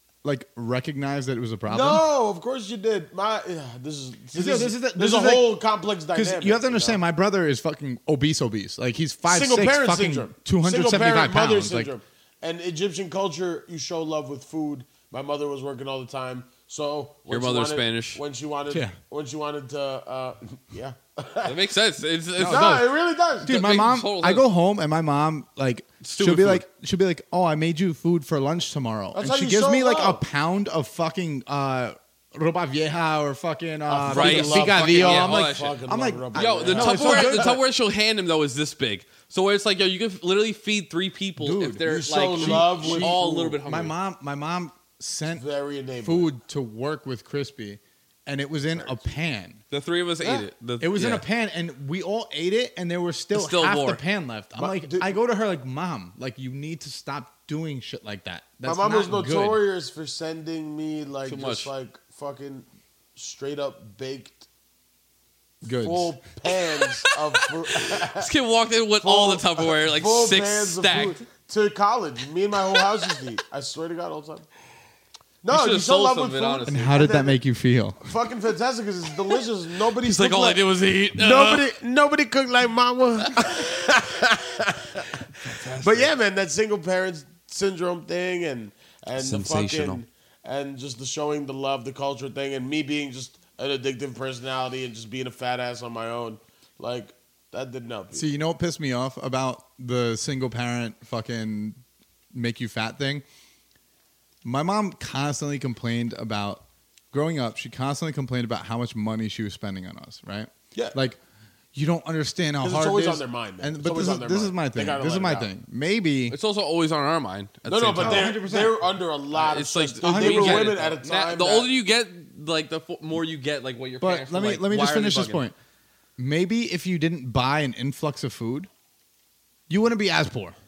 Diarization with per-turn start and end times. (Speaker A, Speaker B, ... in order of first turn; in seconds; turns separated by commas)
Speaker A: 0.2-2.0, Speaker B: 1.7-7.0, Speaker A: 4.3-5.5, Speaker A: 6.1-11.9, Speaker B: 9.3-21.6, Speaker C: 17.3-18.2, Speaker A: 18.7-19.0, Speaker C: 21.4-22.8, Speaker A: 22.4-22.9, Speaker B: 22.4-23.5, Speaker A: 23.4-37.6, Speaker C: 23.5-24.4, Speaker C: 26.0-26.6, Speaker B: 29.1-30.2, Speaker B: 33.9-37.6, Speaker C: 34.1-35.8, Speaker C: 36.3-43.9, Speaker A: 41.4-45.4, Speaker B: 41.9-43.6, Speaker B: 45.4-46.3, Speaker A: 46.0-49.6, Speaker B: 48.8-49.0, Speaker C: 49.7-51.2, Speaker A: 50.8-59.6, Speaker C: 53.4-54.0, Speaker B: 54.5-55.1, Speaker B: 58.6-64.5, Speaker C: 61.3-61.7, Speaker A: 65.6-66.2, Speaker B: 65.6-68.3, Speaker C: 67.0-71.2, Speaker B: 69.0-74.5, Speaker B: 75.4-77.4, Speaker C: 75.5-76.9, Speaker A: 76.7-78.0, Speaker B: 78.0-80.6, Speaker C: 80.0-81.7, Speaker B: 81.2-98.3, Speaker C: 85.4-86.1, Speaker C: 89.2-90.0, Speaker A: 98.1-101.8, Speaker A: 102.3-103.2, Speaker A: 104.4-111.2, Speaker A: 111.7-116.4, Speaker B: 112.6-115.5, Speaker C: 116.3-118.3, Speaker B: 117.7-121.7, Speaker A: 118.0-118.8, Speaker C: 119.3-125.4, Speaker A: 120.0-120.8, Speaker A: 124.0-125.5, Speaker A: 126.2-128.7, Speaker A: 129.7-130.6